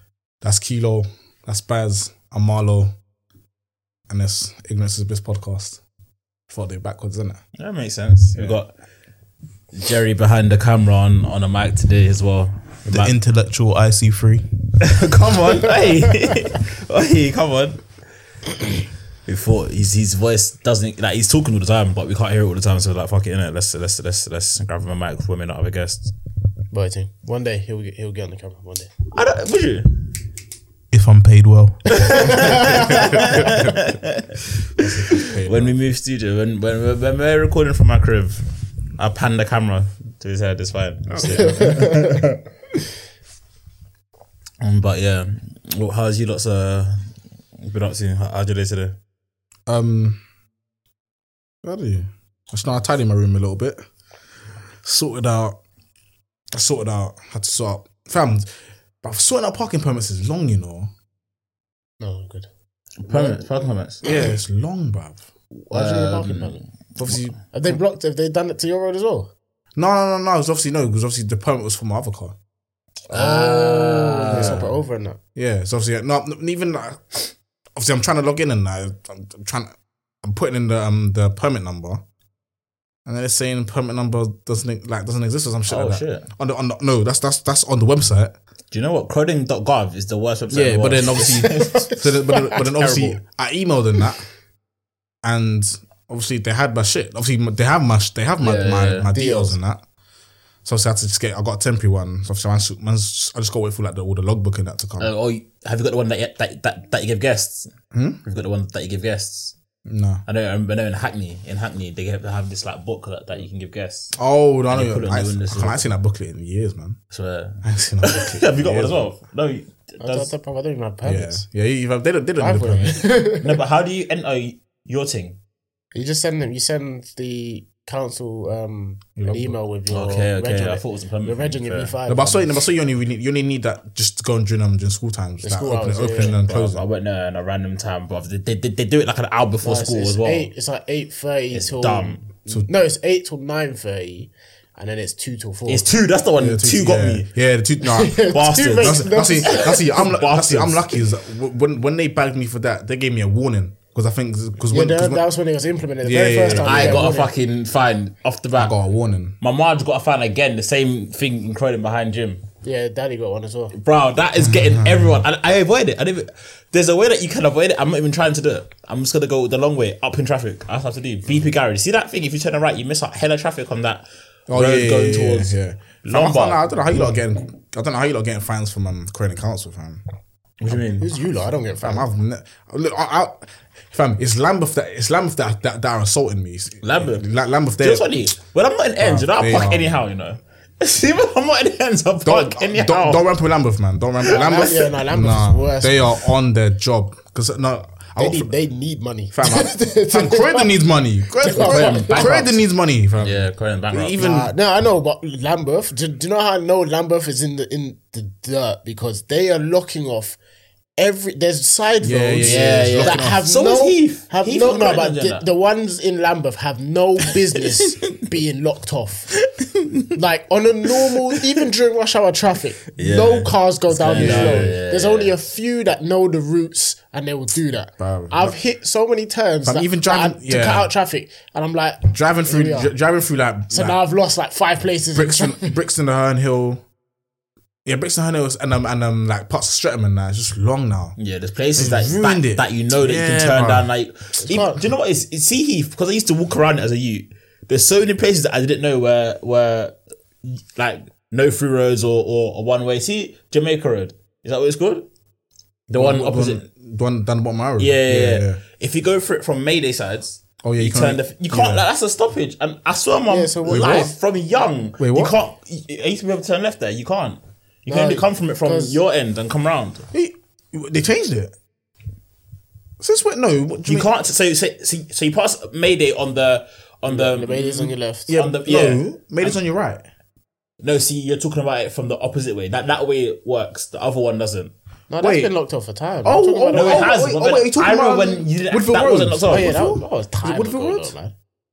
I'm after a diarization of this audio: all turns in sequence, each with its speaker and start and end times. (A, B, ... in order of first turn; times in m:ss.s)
0:00.4-0:02.9 A
0:04.1-0:05.8 A
0:06.5-0:07.4 A
0:07.6-0:08.7 B
0:09.7-0:13.1 B
0:12.9-0:14.4 C
0:14.8-0:17.8 B
0:19.2-0:26.1 B
0:26.7-0:28.9 D
0:29.1-0:30.0 B
0:30.9-0:32.6 C
0:31.9-0:33.0 D
0:32.2-0:34.4 B
0:32.5-0:33.8 A
0:34.8-0:35.8 A
0:35.2-0:42.2 B
0:41.1-0:42.1 A
0:41.3-0:42.2 D
0:44.6-0:49.0 B
0:49.7-0:50.2 A
0:51.6-0:53.8 A
0:54.8-0:55.6 A
0:56.5-0:58.5 A
0:59.0-1:00.9 A
1:02.0-1:02.5 D
1:03.0-1:04.0 B
1:03.1-1:04.3 D
1:04.0-1:05.2 A
1:05.6-1:06.6 B
1:05.7-1:06.6 D
1:07.0-1:07.4 A
1:07.4-1:09.3 D
1:09.8-1:12.4 A
1:13.1-1:14.7 B
1:13.1-1:15.2 D
1:14.3-1:14.7 A
1:15.3-1:22.0 A
1:23.0-1:28.3 A
1:25.7-1:26.2 B
1:28.7-1:31.9 B
1:30.5-1:34.2 A
1:31.4-1:31.9 D
1:32.5-1:33.2 B
1:35.2-1:39.8 A
1:38.4-1:39.1 B
1:39.1-1:39.6 D
1:40.6-1:45.1 A
1:45.0-1:47.7 B
1:47.9-1:48.2 A
1:48.2-1:49.6 B
1:49.8-1:50.2 A
1:50.2-1:54.2 B
1:54.2-1:57.0 A
1:54.7-1:55.9 B
1:57.1-2:00.3 B
1:57.6-1:59.1 A
2:00.0-2:01.4 D
2:01.0-2:03.0 A
2:02.4-2:03.5 D
2:03.4-2:05.4 B
2:05.9-2:12.6 D
2:09.2-2:09.6 A
2:09.9-2:11.9 B
2:12.1-2:16.8 A
2:15.4-2:16.4 D
2:16.2-2:20.5 B
2:19.6-2:25.8 D
2:21.5-2:22.2 B
2:25.7-2:27.3 B
2:26.4-2:35.2 A
2:27.8-2:29.9 D
2:28.2-2:31.0 B
2:34.7-2:37.3 D
2:36.0-2:37.1 A
2:36.5-2:38.8 B
2:38.5-2:39.4 A
2:39.4-2:42.4 B
2:42.6-2:43.7 D
2:43.7-2:57.1 B
2:44.4-2:45.1 A
2:54.5-3:00.0 A
3:00.6-3:01.1 B
3:01.0-3:02.1 D
3:01.8-3:08.1 A
3:06.8-3:07.3 B
3:07.8-3:13.2 B
3:09.0-3:10.0 A
3:12.2-3:18.5 A
3:14.2-3:14.7 B
3:14.3-3:16.2 D
3:18.2-3:20.8 D
3:19.3-3:24.5 A
3:21.4-3:22.4 D
3:21.5-3:22.6 B
3:23.2-3:24.2 B
3:24.2-3:30.4 D
3:31.0-3:39.3 D
3:32.0-3:33.4 A
3:32.4-3:35.4 B
3:37.7-3:38.0 B
3:39.6-3:40.0 B
3:40.1-3:52.9 D
3:43.0-3:45.3 B
3:44.1-3:44.7 A
3:48.0-3:48.5 A
3:49.6-3:50.9 A
3:52.1-3:54.0 A
3:53.7-3:55.7 D
3:55.1-3:56.8 A
3:57.8-4:01.2 A
4:01.2-4:15.0 B
4:01.8-4:03.9 A
4:04.4-4:04.8 D
4:15.9-4:18.6 A
4:15.9-4:16.6 B
4:17.8-4:30.0 B
4:20.6-4:21.8 A
4:23.3-4:24.1 D
4:23.6-4:24.1 A
4:25.0-4:25.3 A
4:27.9-4:29.0 D
4:30.1-4:31.5 A
4:33.0-4:34.1 A
4:33.8-4:39.6 B
4:37.0-4:38.3 D
4:38.3-4:40.0 A
4:40.8-4:44.7 B
4:45.1-4:47.1 D
4:45.2-4:45.5 A
4:46.2-4:51.1 A
4:46.7-4:49.8 B
4:49.4-4:51.3 D